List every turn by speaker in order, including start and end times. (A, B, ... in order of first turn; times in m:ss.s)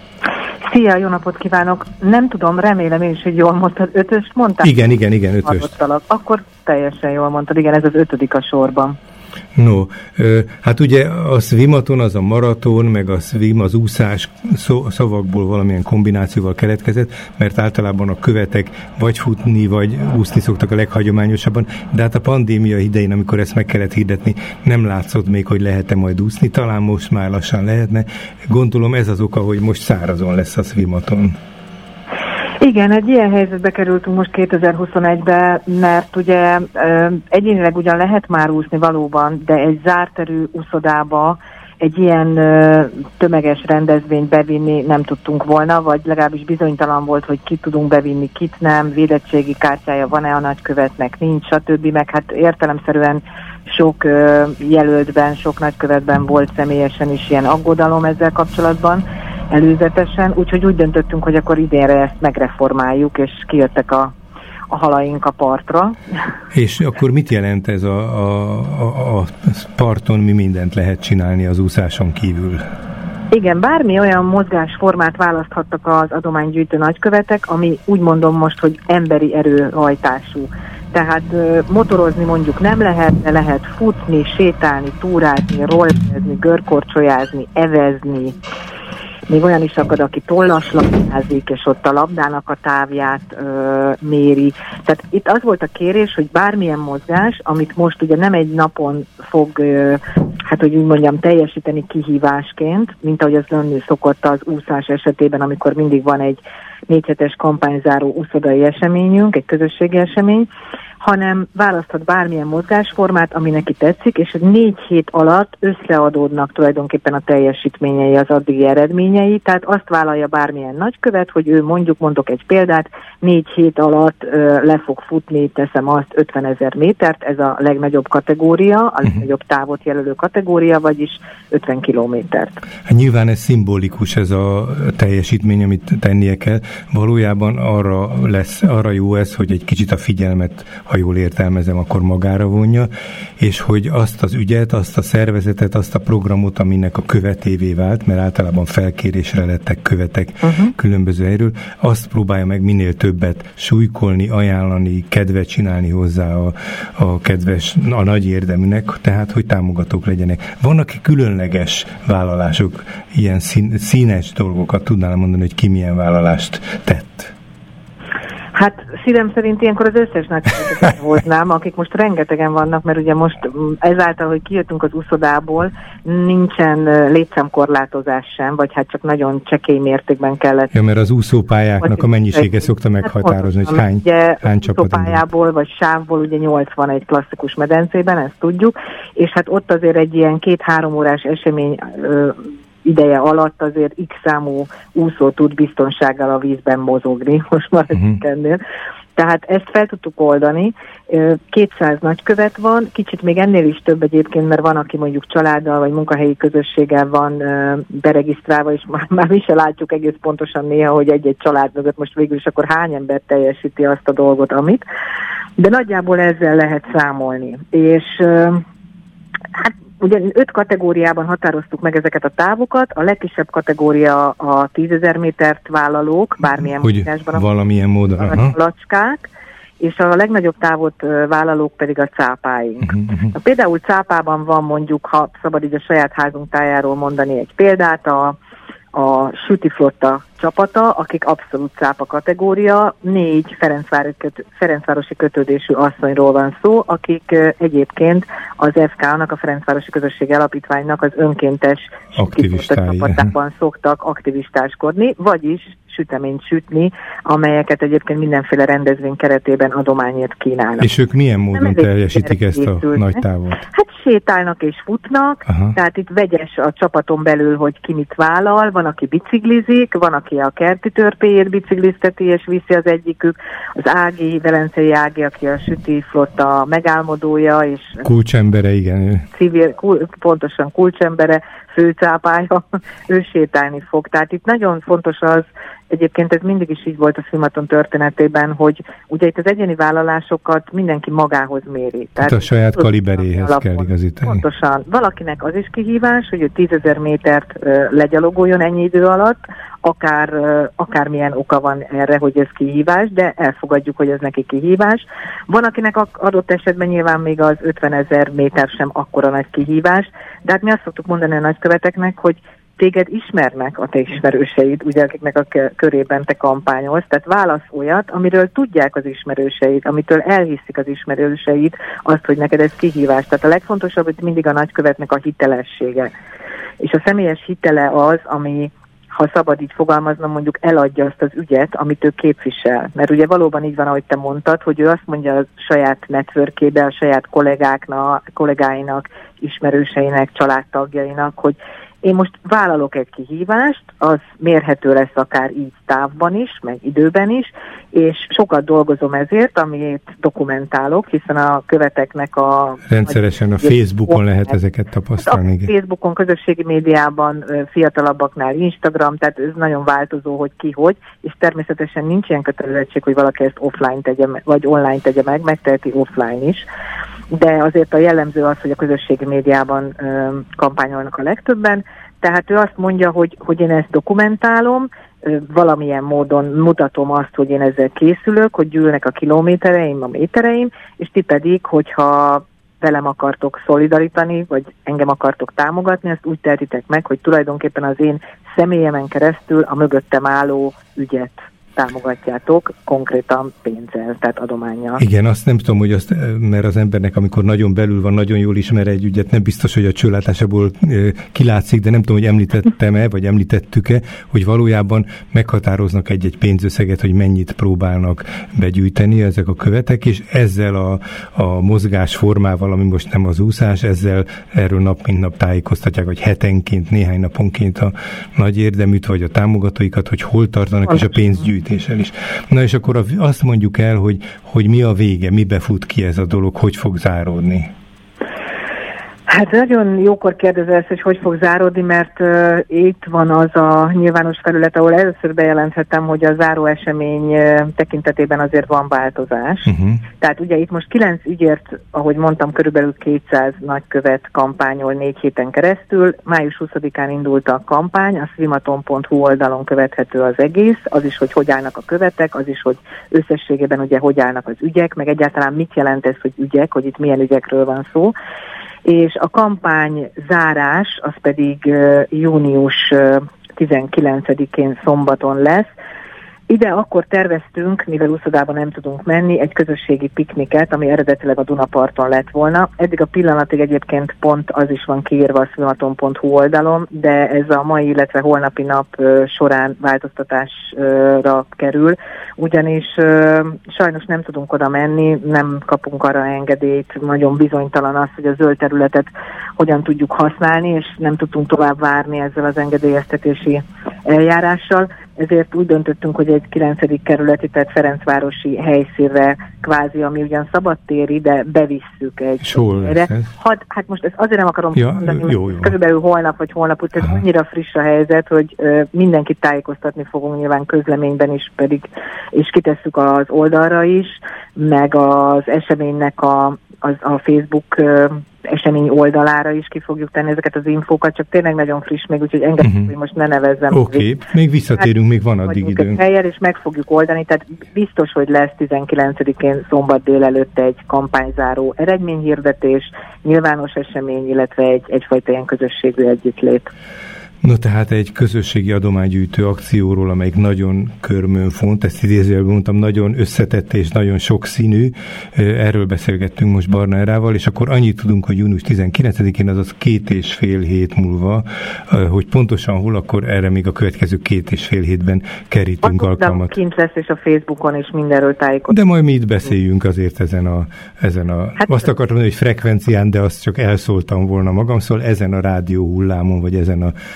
0:00.7-0:04.8 A
0:04.6-0:05.7 B
0:05.4-0:09.0 A
0:09.6-0:31.4 B
0:32.6-1:04.1 A
1:04.7-1:06.0 A
1:06.5-1:12.6 B
1:13.3-1:28.4 A
1:29.3-1:50.5 A
1:51.0-2:12.6 A
2:12.9-2:47.3 B
2:30.4-2:30.7 A
2:48.6-3:00.7 A
3:00.7-3:05.2 B
3:01.8-3:18.6 A
3:19.2-3:34.8 A
3:35.6-3:38.6 A
3:39.5-3:47.4 A
3:46.8-3:48.5 B
3:48.2-3:49.3 A
3:49.8-3:58.4 A
3:52.9-3:53.3 B
3:58.9-4:20.9 A
4:12.1-4:13.3 B
4:20.8-4:23.6 B
4:21.5-4:38.0 A
4:25.5-4:25.7 B
4:38.0-4:39.3 B
4:39.3-5:26.1 A
4:52.2-4:54.4 B
5:26.8-5:54.3 A
5:52.9-5:55.7 B
5:55.2-6:06.6 A
6:07.3-6:35.0 A
6:35.0-7:07.7 B
7:09.3-7:38.1 A
7:19.7-7:20.0 B
7:38.8-7:45.7 A
7:46.5-8:44.1 A
8:22.4-8:23.3 B
8:24.8-8:25.7 B
8:42.6-8:42.9 B
8:43.7-8:46.0 B
8:45.5-8:56.7 A
8:57.4-9:16.5 B
9:15.8-9:18.8 A
9:18.7-9:26.9 B